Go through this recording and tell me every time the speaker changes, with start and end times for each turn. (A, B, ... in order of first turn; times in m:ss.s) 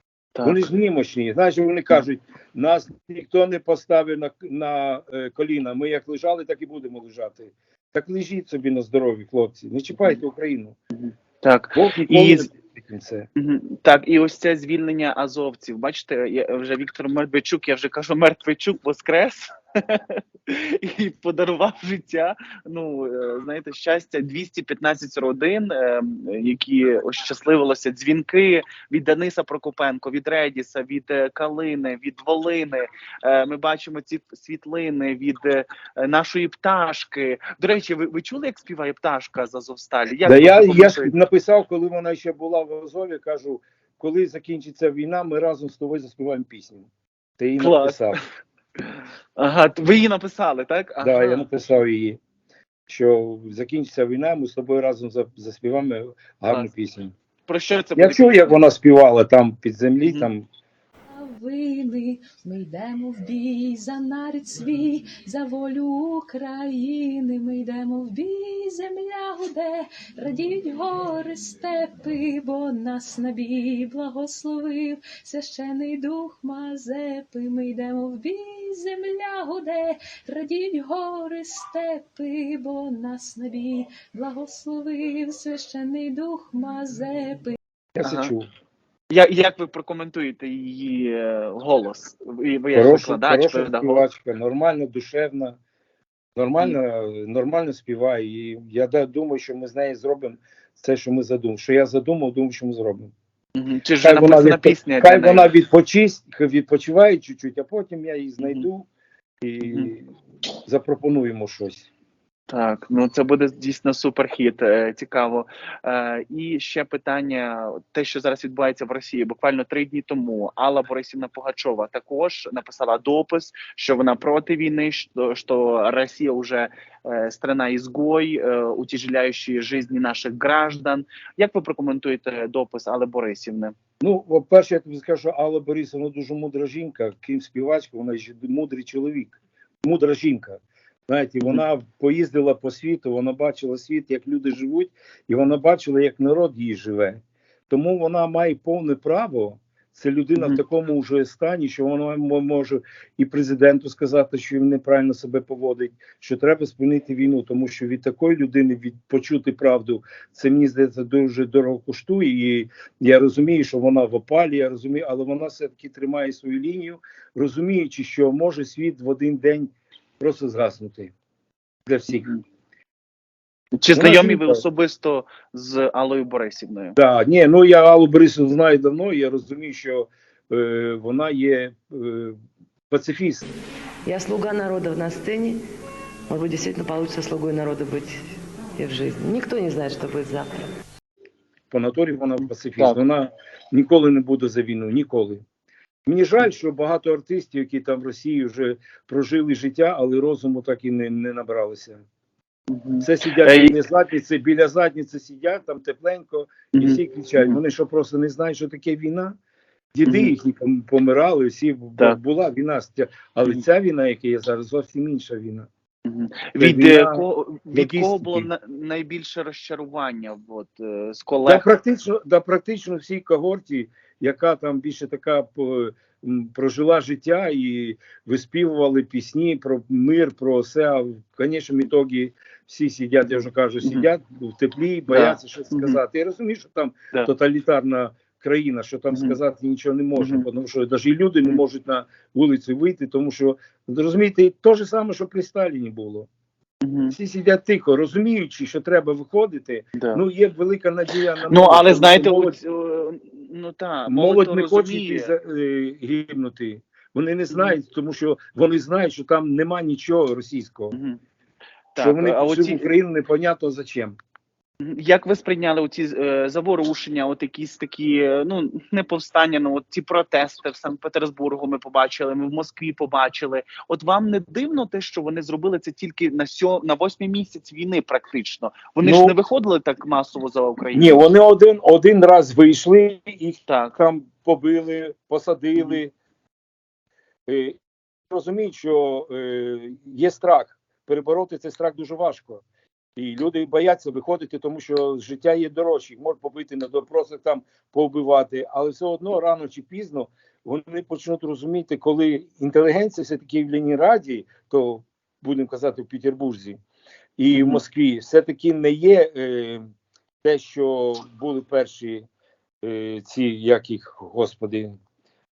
0:00.3-0:00.6 A
0:00.4-0:10.8 B
0:10.9-0:12.5 A
0:11.7-0:13.3 B
0:13.4-0:41.1 A
0:40.2-0:48.2 B
0:47.6-0:48.1 A
0:49.4-0:51.4 A
0:51.0-0:52.2 B
0:52.9-0:57.1 B
0:57.5-0:58.6 A
0:58.0-1:00.4 B
1:00.0-1:00.3 A
1:01.1-1:27.6 C
1:28.0-1:28.5 B
1:28.0-1:28.3 A
1:29.1-1:34.0 A
1:32.7-1:35.6 B
1:36.4-1:43.1 B
1:43.6-1:45.5 A
1:44.0-1:48.9 B
1:48.4-1:48.7 A
1:49.4-1:50.1 B
1:49.6-1:49.9 A
1:50.6-1:51.9 B
1:52.5-2:13.7 A
2:14.0-2:51.1 B
2:51.8-2:52.3 B
2:53.8-2:57.0 A
2:53.9-2:54.6 B
2:57.0-3:02.4 B
3:02.9-3:03.4 B
3:04.0-3:05.6 D
3:06.3-3:08.2 D
3:08.8-3:10.7 D
3:11.7-3:15.4 B
3:12.4-3:13.0 A
3:16.0-3:22.0 B
3:22.7-3:23.7 A
3:23.0-3:29.4 B
3:26.7-3:27.6 A
3:29.9-3:35.7 B
3:30.0-3:30.3 A
3:36.0-3:41.6 A
3:36.6-3:38.5 B
3:41.4-4:06.3 B
3:53.2-3:54.1 A
3:55.1-3:56.0 A
3:59.1-3:59.4 A
4:00.2-4:00.4 A
4:06.8-4:07.1 A
4:07.1-4:12.6 B
4:10.0-4:10.2 A
4:11.5-4:15.3 A
4:14.1-4:20.9 B
4:17.5-4:17.8 A
4:20.9-4:21.2 A
4:21.9-4:22.8 A
4:22.0-4:24.2 B
4:24.8-4:41.3 A
4:39.0-4:39.4 B
4:40.9-4:46.1 B
4:43.7-4:43.9 A
4:47.5-4:47.8 B
4:48.3-4:52.6 B
4:53.2-5:06.8 B
5:07.4-5:09.8 B
5:07.5-5:07.8 A
5:10.4-5:12.2 B
5:12.8-5:15.0 B